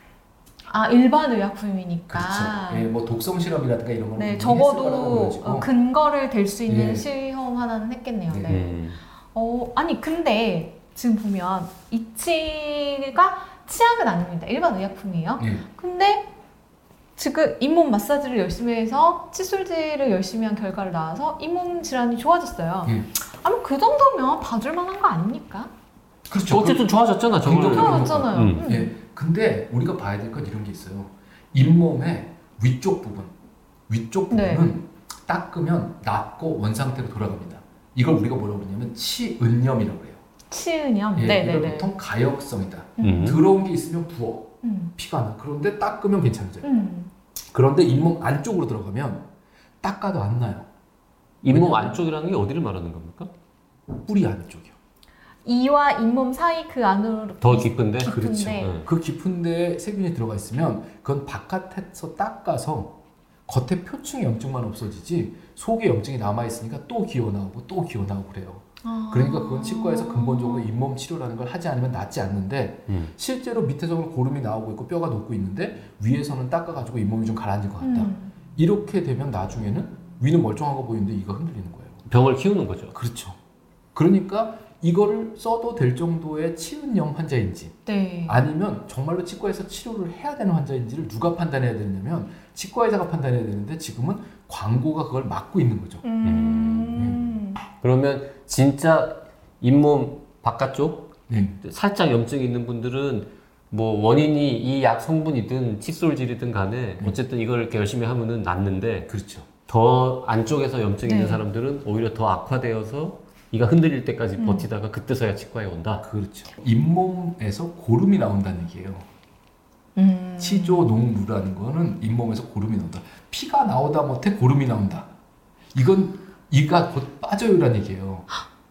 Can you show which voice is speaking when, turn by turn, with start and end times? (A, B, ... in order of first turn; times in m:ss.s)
0:00.7-0:02.9 A
0:02.1-0:05.7 B
0:04.2-0:08.8 A
0:06.7-0:07.1 B
0:08.3-0:08.6 B
0:08.5-0:09.0 C
0:09.3-0:16.3 A
0:15.4-0:15.6 B
0:17.2-0:25.7 A
0:26.3-0:26.8 B
0:26.5-0:28.7 C
0:27.4-0:33.3 B
0:27.6-0:28.9 A
0:33.9-0:40.2 B
0:34.3-0:34.7 A
0:40.5-0:41.9 A
0:41.2-0:46.7 B
0:43.0-0:43.4 A
0:43.0-0:43.4 C
0:44.6-0:44.9 A
0:46.6-0:47.1 A
0:47.5-0:49.3 B
0:49.8-0:50.7 B
0:51.4-0:53.3 C
0:51.5-0:52.0 B
0:54.0-0:54.8 B
0:55.4-0:58.7 A
0:57.4-0:58.9 C
0:58.0-1:22.0 B
1:08.8-1:10.7 A
1:12.9-1:13.1 C
1:17.8-1:18.3 A
1:22.1-1:23.0 C
1:22.9-1:23.4 B
1:24.0-1:36.0 B
1:27.9-1:28.4 A
1:36.0-1:37.6 A
1:36.2-1:37.2 C
1:37.8-1:49.1 C
1:41.3-1:41.6 B
1:49.1-1:49.5 B
1:49.7-1:56.1 C
1:51.0-1:51.4 A
1:54.4-1:54.7 A
1:56.0-1:59.1 B
2:00.0-2:00.9 A
2:00.4-2:05.1 B
2:05.7-2:08.3 B